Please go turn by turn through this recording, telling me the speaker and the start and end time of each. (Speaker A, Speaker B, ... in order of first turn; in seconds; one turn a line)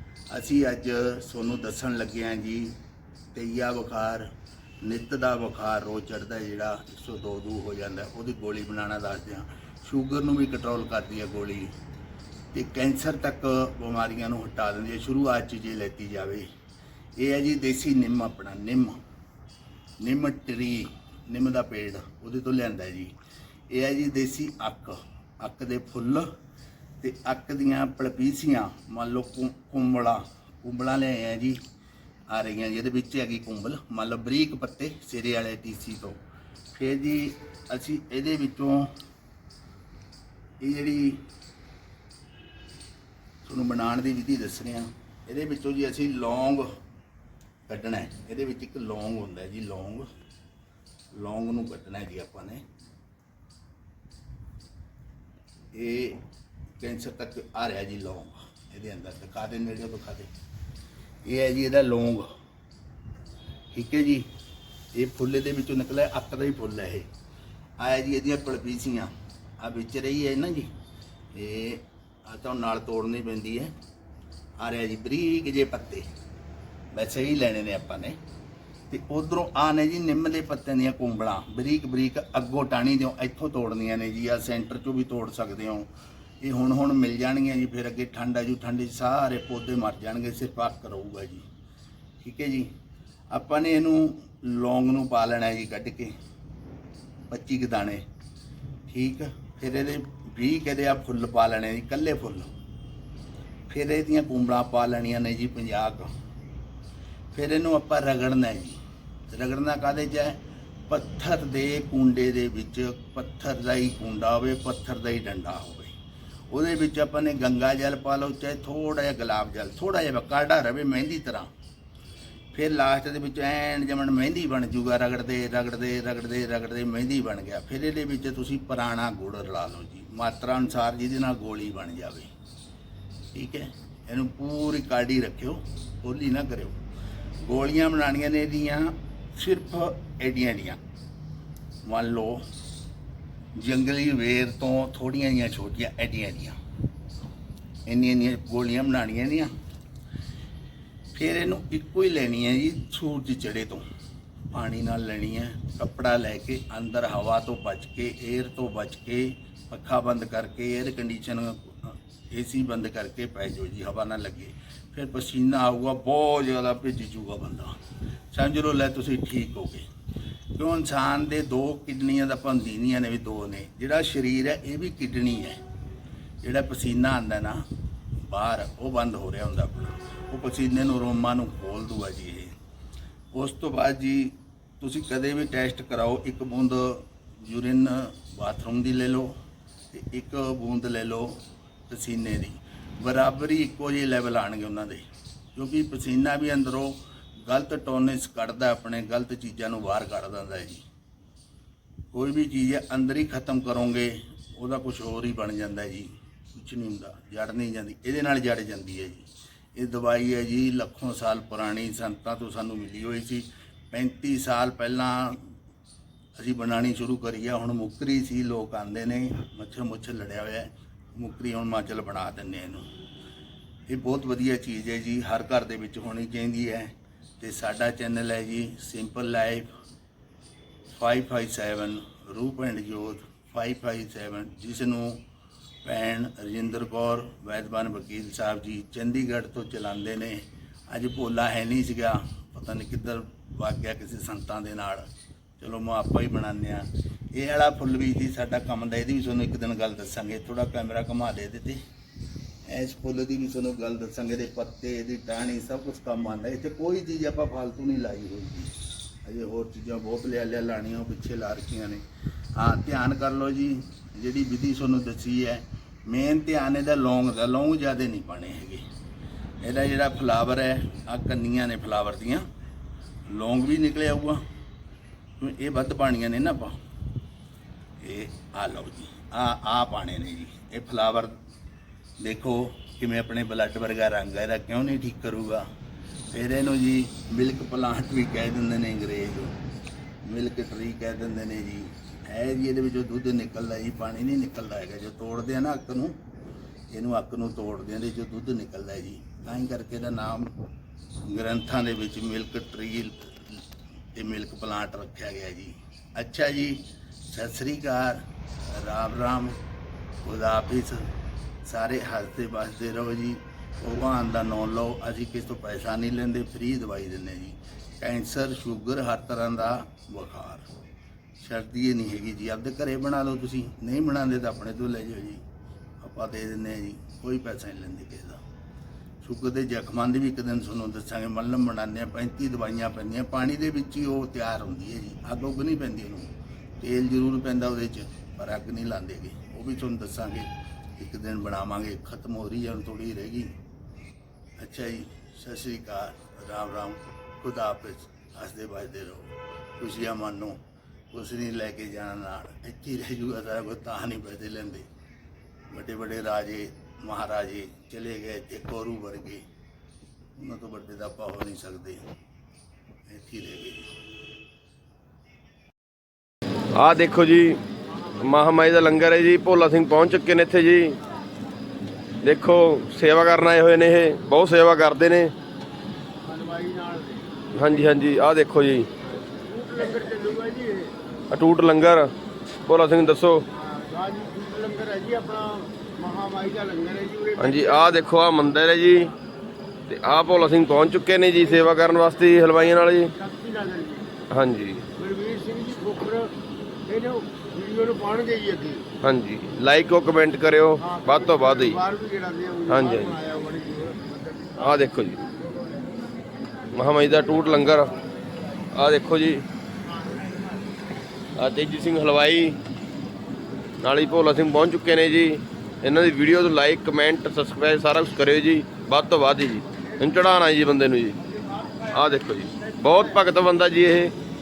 Speaker A: 0.3-2.7
Speaker A: 3.3-4.3
Speaker A: 4.8-11.7
Speaker A: 12.5-16.4
Speaker A: 17.2-19.0
Speaker A: 20.0-23.1
Speaker A: 23.7-26.2
Speaker A: 27.0-31.6
Speaker A: 32.3-36.2
Speaker A: 36.7-38.9
Speaker A: 40.6-41.2
Speaker A: 43.4-46.7
Speaker A: 47.7-50.1
Speaker A: 51.1-52.6
Speaker A: 55.7-56.2
Speaker A: 56.8-60.3
Speaker A: 61.2-62.3
Speaker A: 63.7-64.3
Speaker A: 64.9-67.1
Speaker A: 67.8-70.7
Speaker A: 71.3-73.7
Speaker A: 74.6-76.0
Speaker A: 76.9-78.2
Speaker A: 78.9-85.9
Speaker A: 86.4-91.4
Speaker A: 92.2-92.7
Speaker A: 93.3-96.1
Speaker A: 97.3-98.0
Speaker A: 98.9-102.5
Speaker A: 103.7-106.1
Speaker A: 107.3-108.8
Speaker A: 109.3-110.4
Speaker A: 110.9-115.9
Speaker A: 116.5-121.5
Speaker A: 122.5-132.3
Speaker A: 133.3-136.8
Speaker A: 137.4-140.8
Speaker A: 141.8-142.4
Speaker A: 143.6-146.6
Speaker A: 147.9-149.5
Speaker A: 151.1-153.8
Speaker A: 154.5-167.7
Speaker A: 168.3-169.8
Speaker A: 170.5-175.6
Speaker A: 176.4-177.6
Speaker A: 178.3-182.5
Speaker A: 183.3-189.3
Speaker A: 189.9-195.0
Speaker A: 195.5-200.8
Speaker A: 202.1-215.5
Speaker A: 216.3-222.8
Speaker A: 223.9-229.7
Speaker A: 230.9-235.2
Speaker A: 235.8-245.1
Speaker A: 245.6-251.8
Speaker A: 252.7-262.0
Speaker A: 262.6-268.8
Speaker A: 269.6-272.4
Speaker A: 273.3-274.4
Speaker A: 275.4-276.7
Speaker A: 278.0-281.3
Speaker A: 282.2-285.6
Speaker A: 286.3-289.5
Speaker A: 290.2-296.2
Speaker A: 296.9-300.5
Speaker A: 301.2-309.6
Speaker A: 310.2-311.1
Speaker A: 311.6-320.7
Speaker A: 321.4-325.4
Speaker A: 326.0-328.4
Speaker A: 329.2-343.5
Speaker A: 344.6-350.6
Speaker A: 351.1-354.9
Speaker A: 355.7-359.4
Speaker A: 360.4-362.0
Speaker A: 363.1-363.9
Speaker B: 366.7-371.0
Speaker B: 372.2-375.3
Speaker C: 376.2-377.3
Speaker B: 377.5-378.9
Speaker C: 379.4-380.9
Speaker B: 381.3-382.1
Speaker B: 382.6-383.4
Speaker C: 383.5-387.9
Speaker B: 387.4-389.1
Speaker B: 389.9-393.1
Speaker C: 393.1-394.1
Speaker B: 394.3-394.9
Speaker C: 394.9-396.3
Speaker C: 396.9-398.9
Speaker B: 399.0-401.8
Speaker C: 400.8-404.8
Speaker B: 402.7-403.2
Speaker B: 404.6-405.2
Speaker B: 406.7-407.9
Speaker B: 408.7-409.4
Speaker C: 409.9-410.3
Speaker B: 411.4-412.6
Speaker B: 413.8-421.2
Speaker B: 421.8-424.1